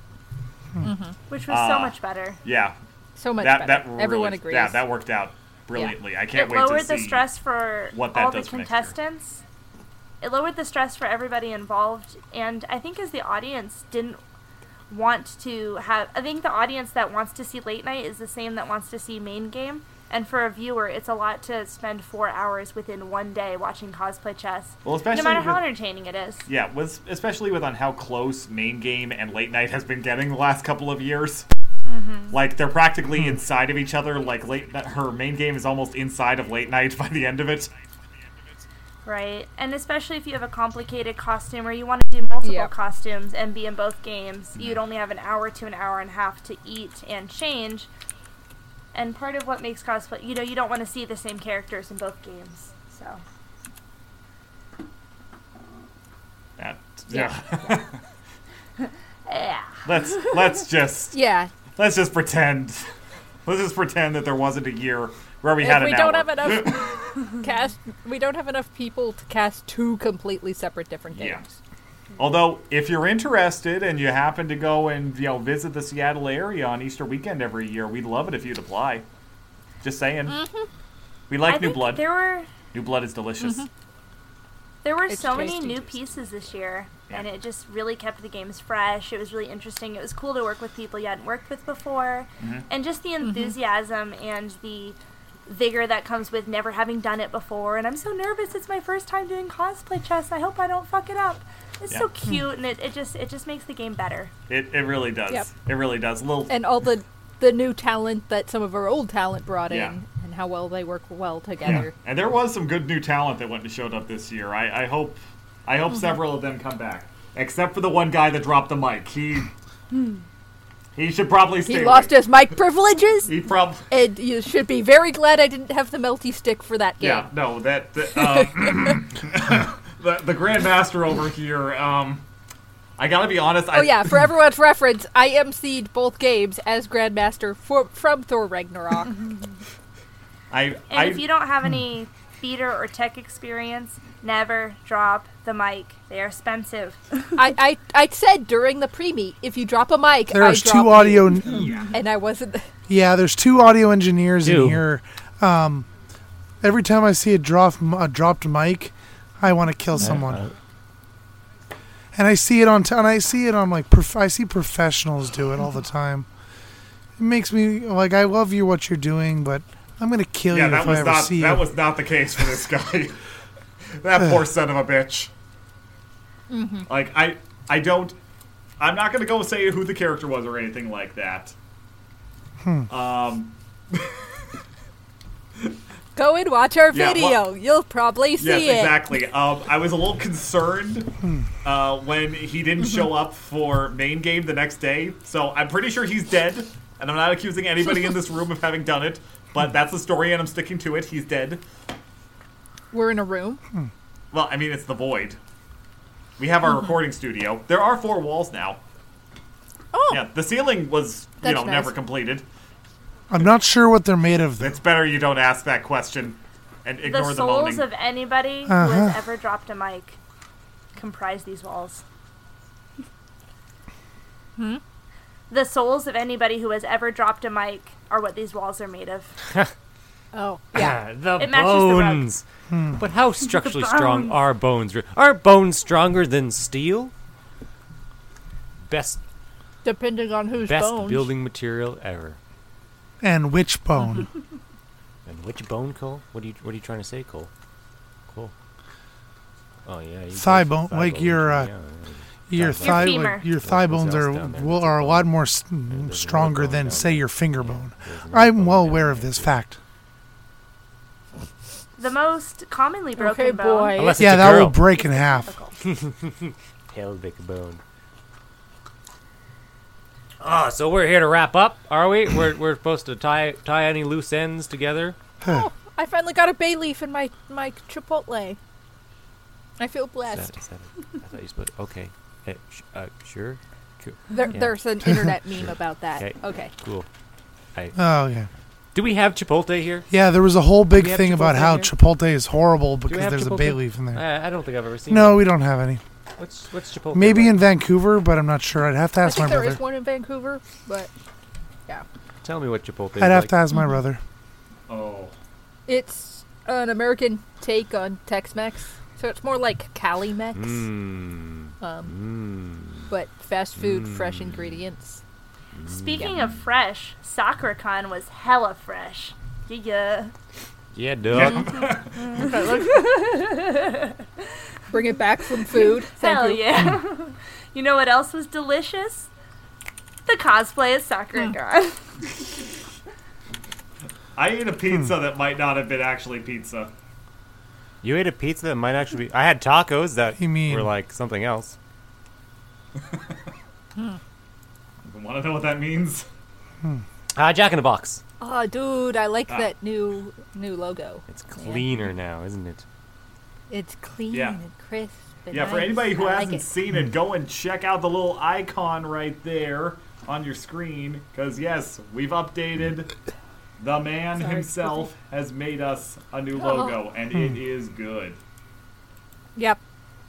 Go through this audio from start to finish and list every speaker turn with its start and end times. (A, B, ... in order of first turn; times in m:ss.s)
0:00.8-0:01.2 A
0:01.3-0:02.4 B
0:01.5-0:02.8 C
0:03.2-0:04.8 A
0:03.4-0:07.3 C
0:06.3-0:09.4 B
0:07.9-0:08.9 C
0:10.2-0:14.2 B
0:14.9-0:26.5 B
0:24.8-0:25.7 C
0:26.5-0:31.5 C
0:31.9-0:32.4 B
0:32.3-0:37.7 C
0:39.0-0:47.9 B
0:42.4-0:42.7 A
0:48.9-0:53.2 B
0:56.6-0:58.0 C
0:59.3-1:00.3 B
0:59.9-1:01.2 C
1:01.1-1:01.5 A
1:01.8-1:02.8 C
1:03.4-1:07.2 C
1:05.6-1:11.6 A
1:11.2-1:11.4 C
1:12.2-1:19.0 C
1:19.8-1:20.4 C
1:20.3-1:20.7 A
1:21.3-1:22.1 C
1:21.4-1:22.6 B
1:22.7-1:23.7 C
1:24.8-1:44.3 B
1:25.1-1:25.8 A
1:32.4-1:32.7 C
1:44.5-1:46.6 C
1:46.5-1:51.9 A
1:49.7-1:50.0 C
1:51.6-1:59.5 C
2:01.0-2:02.2 C
2:01.7-2:03.3 A
2:03.3-2:03.9 C
2:03.9-2:07.3 A
2:07.0-2:12.2 C
2:13.0-2:14.2 C
2:13.7-2:19.2 A
2:20.5-2:21.3 C
2:20.9-2:27.0 B
2:27.4-2:32.7 A
2:30.3-2:31.7 D
2:31.5-2:31.9 C
2:32.9-2:35.9 D
2:34.4-2:34.8 E
2:36.6-2:40.4 D
2:40.0-2:40.5 E
2:42.1-2:46.3 D
2:47.2-2:51.7 D
2:50.5-2:53.2 C
2:54.0-2:55.3 C
2:56.5-2:56.9 A
2:56.9-2:58.2 C
2:58.8-3:01.5 C
3:02.9-3:04.2 C
3:06.2-3:09.0 A
3:06.9-3:07.4 C
3:08.4-3:21.6 C
3:22.9-3:23.6 A
3:24.3-3:25.4 C
3:26.4-3:28.8 C
3:29.9-3:30.2 A
3:30.1-3:32.5 C
3:31.4-3:32.0 A
3:33.3-3:34.8 D
3:34.6-3:37.9 C
3:37.0-3:40.2 B
3:38.7-3:39.2 D
3:41.0-3:42.0 B
3:45.5-3:49.3 B
3:50.3-3:51.0 A
3:50.7-3:52.4 E
3:51.4-3:52.3 B
3:52.7-3:53.0 D
3:53.0-3:57.1 E
3:53.5-3:54.4 B
3:58.9-3:59.2 E
3:59.8-4:01.3 A
4:00.6-4:02.4 E
4:03.2-4:04.3 D
4:05.3-4:07.5 E
4:09.9-4:15.4 E
4:10.4-4:11.7 D
4:12.5-4:19.8 D
4:12.8-4:13.4 B
4:15.9-4:19.5 E
4:22.0-4:24.2 B
4:23.2-4:24.3 A
4:24.0-4:24.8 E
4:24.2-4:25.5 D
4:24.9-4:25.7 B
4:25.8-4:27.8 E
4:30.4-4:35.2 E
4:35.4-4:38.6 A
4:39.8-4:40.5 A
4:40.3-4:44.8 E
4:44.3-4:46.7 A
4:46.2-4:47.1 E
4:48.0-4:48.5 D
4:48.9-4:50.1 E
4:50.1-4:54.2 D
4:50.9-4:51.9 E
4:53.1-4:55.5 E
4:55.1-4:56.0 D
4:56.4-4:57.6 E
4:57.1-4:59.8 D
4:59.2-5:01.1 A
5:02.4-5:03.6 E
5:03.2-5:04.2 D
5:04.9-5:05.3 C
5:05.9-5:10.9 A
5:10.6-5:13.1 E
5:11.8-5:12.1 A
5:13.1-5:15.2 A
5:13.8-5:14.8 E
5:15.8-5:16.5 E
5:15.9-5:20.3 B
5:20.9-5:21.8 E
5:21.3-5:22.6 C
5:22.4-5:23.5 A
5:22.5-5:24.2 B
5:24.9-5:26.7 A
5:25.8-5:29.3 B
5:30.3-5:32.3 B
5:34.4-5:36.9 C
5:38.0-5:41.8 E
5:40.4-5:40.9 D
5:43.0-5:43.4 C
5:45.1-5:46.3 C
5:47.4-5:48.2 E
5:48.4-5:51.9 A
5:51.3-5:52.8 E
5:53.7-5:56.7 A
5:54.3-5:54.6 C
5:55.5-6:03.1 C
6:03.8-6:08.4 C
6:04.4-6:05.1 A
6:06.6-6:07.0 A